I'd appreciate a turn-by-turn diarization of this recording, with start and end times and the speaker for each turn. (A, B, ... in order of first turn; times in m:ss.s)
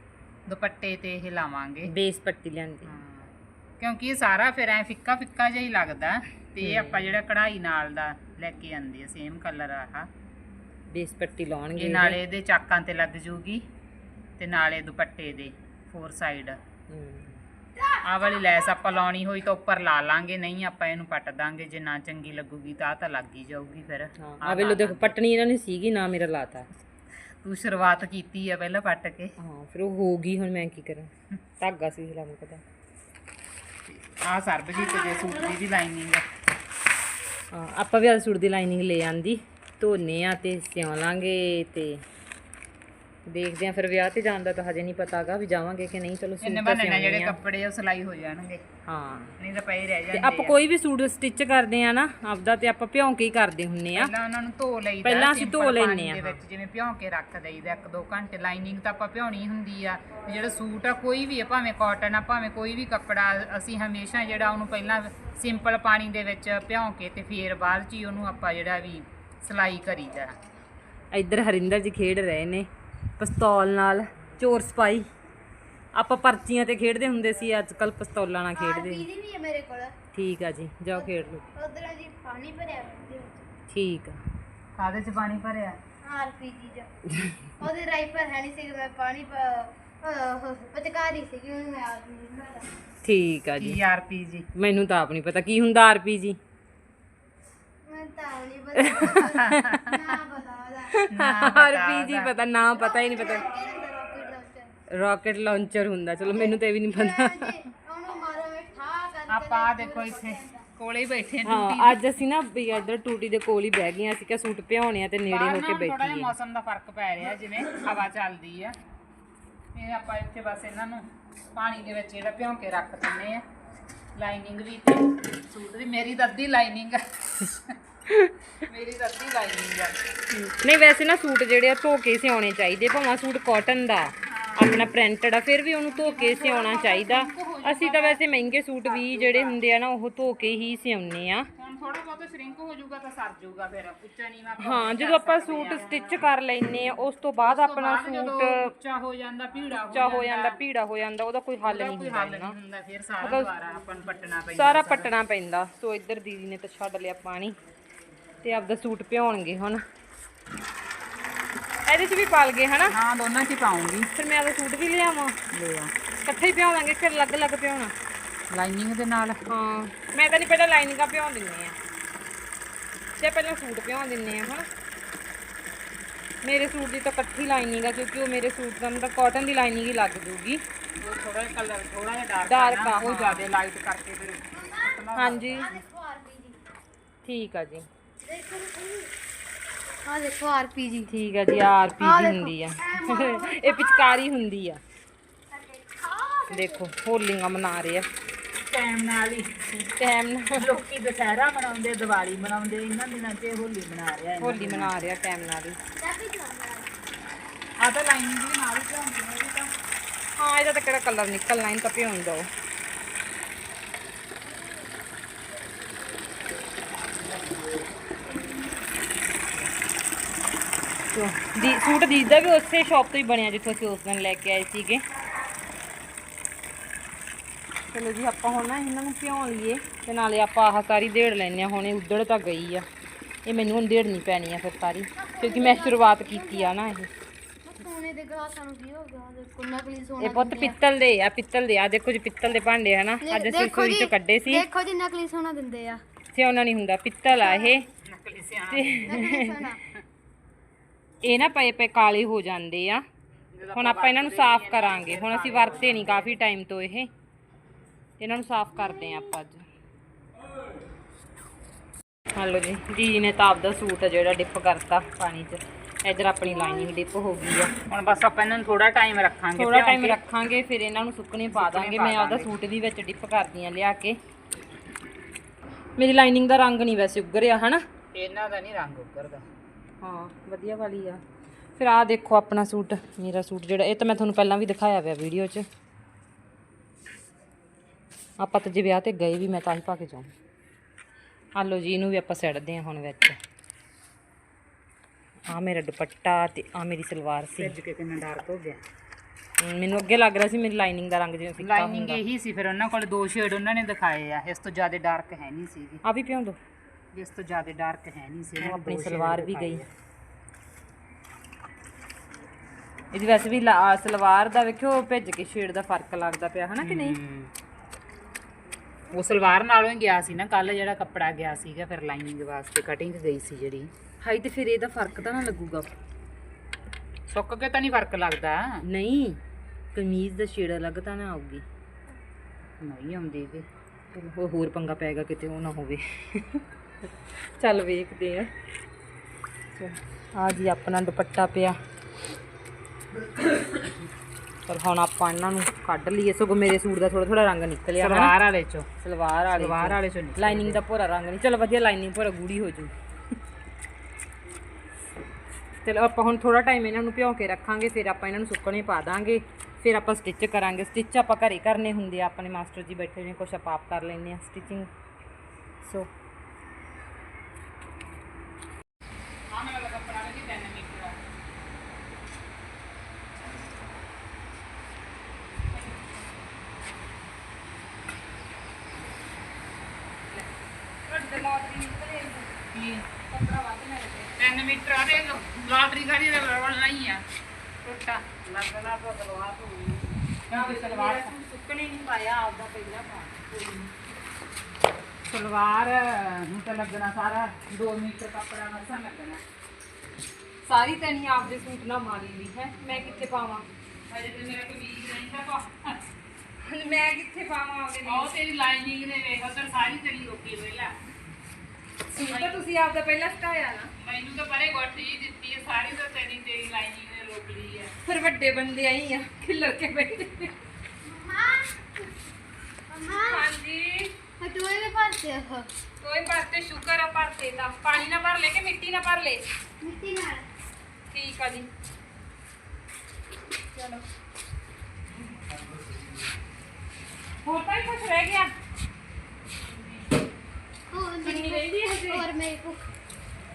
0:00.5-0:01.9 A
0:01.9-0:02.9 B
0:02.8-0:10.1 A
0:06.6-0:07.1 B
0:10.9-0:12.2 B
0:11.7-0:13.6 A
0:14.4-0:16.6 A
0:16.9-0:17.4 B
0:17.9-0:25.1 A
0:24.2-0:26.7 B
0:27.4-0:29.3 A
0:29.4-0:32.6 B
0:33.9-0:36.2 A
0:37.5-0:42.0 B
0:43.3-0:47.4 B
0:46.4-0:48.6 A
0:48.9-0:49.3 B
0:49.4-0:50.5 A
0:50.1-0:54.1 B
0:53.9-1:10.3 A
0:55.0-0:56.4 B
1:11.1-1:15.1 B
1:15.9-1:19.0 B
1:18.5-1:19.9 C
1:20.1-1:21.4 B
1:20.9-1:23.4 C
1:23.7-1:24.2 B
1:24.8-1:25.8 A
1:26.0-1:26.9 C
1:27.6-1:32.7 C
1:33.0-1:33.8 B
1:33.6-1:34.5 A
1:34.5-1:36.4 B
1:37.8-1:39.3 C
1:38.8-1:39.8 B
1:39.2-1:40.0 A
1:39.8-1:41.0 C
1:40.9-1:43.5 B
1:41.1-1:42.3 A
1:42.8-1:44.7 C
1:44.9-1:47.5 B
1:46.3-1:50.6 C
1:49.3-1:52.2 A
1:51.4-1:56.3 B
1:55.3-1:58.8 A
1:59.7-2:03.4 A
2:04.2-2:07.7 A
2:08.6-2:10.0 A
2:10.3-2:21.5 B
2:14.2-2:14.8 A
2:15.9-2:18.2 A
2:18.8-2:19.6 A
2:21.6-2:26.1 A
2:24.6-2:28.7 B
2:27.4-2:30.6 A
2:29.9-2:32.5 B
2:31.6-2:35.1 A
2:33.2-2:33.5 B
2:34.5-2:37.6 B
2:38.4-2:39.8 B
2:41.8-2:42.9 B
2:42.9-2:44.1 A
2:44.1-2:45.4 B
2:45.5-2:45.9 A
2:46.2-2:47.9 B
2:48.5-2:49.4 A
2:49.5-2:51.7 B
2:53.2-2:54.7 B
2:56.4-3:00.6 B
3:01.0-3:05.8 A
3:02.5-3:03.5 B
3:04.5-3:06.6 C
3:05.2-3:05.7 B
3:07.2-3:07.9 B
3:08.2-3:09.1 C
3:10.0-3:11.1 C
3:11.1-3:14.8 B
3:12.0-3:14.2 C
3:15.5-3:16.8 C
3:16.5-3:18.1 B
3:18.6-3:19.5 A
3:19.8-3:20.8 B
3:20.6-3:25.0 A
3:24.4-3:25.8 B
3:26.0-3:27.0 C
3:27.8-3:29.7 A
3:30.4-3:32.5 B
3:41.1-3:45.0 B
3:47.9-3:52.8 B
3:53.4-3:57.1 B
3:55.2-3:56.7 C
3:57.6-4:00.8 C
4:00.2-4:04.7 B
4:03.2-4:06.0 C
4:06.3-4:07.8 B
4:07.4-4:07.7 C
4:08.0-4:09.4 A
4:08.7-4:09.6 B
4:09.1-4:09.8 C
4:11.2-4:13.0 B
4:13.5-4:16.4 A
4:13.7-4:17.1 B
4:18.2-4:19.6 B
4:22.3-4:27.7 B
4:27.9-4:30.2 A
4:29.6-4:34.2 B
4:31.5-4:32.5 A
4:36.0-4:37.8 B
4:38.1-4:39.4 A
4:40.0-4:41.2 B
4:41.8-4:45.6 B
4:48.4-4:50.3 B
4:51.5-4:53.4 B
4:55.5-4:57.7 B
4:57.6-4:58.8 A
4:59.6-5:02.2 B
5:01.6-5:06.0 A
5:06.0-5:06.6 B
5:07.1-5:09.9 A
5:08.6-5:09.8 B
5:13.1-5:17.2 B
5:16.8-5:17.5 A
5:19.1-5:23.9 A
5:24.2-5:25.9 B
5:27.3-5:28.8 A
5:28.9-5:29.4 B
5:29.9-5:31.6 B
5:32.8-5:33.6 A
5:34.1-5:36.6 B
5:37.6-5:38.5 B
5:39.8-5:41.8 B
5:44.7-5:48.4 B
5:48.0-5:48.9 A
5:49.0-5:52.9 B
5:49.5-5:50.8 A
5:55.8-6:04.9 B
6:05.8-6:06.1 B
6:09.5-6:11.2 A
6:21.1-6:22.6 B
6:22.7-6:23.1 A
6:23.2-6:24.3 B
6:24.4-6:27.2 A
6:27.8-6:31.3 A
6:30.5-6:33.9 B
6:35.3-6:39.4 A
6:40.6-6:43.6 B
6:42.9-6:43.3 A
6:44.1-6:46.0 A
6:46.6-6:48.3 B
6:48.0-6:50.9 A
6:52.1-6:53.9 B
6:52.3-6:52.6 A
6:54.0-6:57.9 A
6:58.0-7:00.6 B
7:01.0-7:02.1 C
7:02.9-7:03.5 C
7:03.1-7:04.2 B
7:04.4-7:05.7 C
7:06.0-7:09.5 B
7:09.8-7:10.4 C
7:11.1-7:11.7 B
7:13.8-7:14.0 B
7:17.4-7:18.5 B
7:20.9-7:22.9 C
7:21.2-7:22.3 B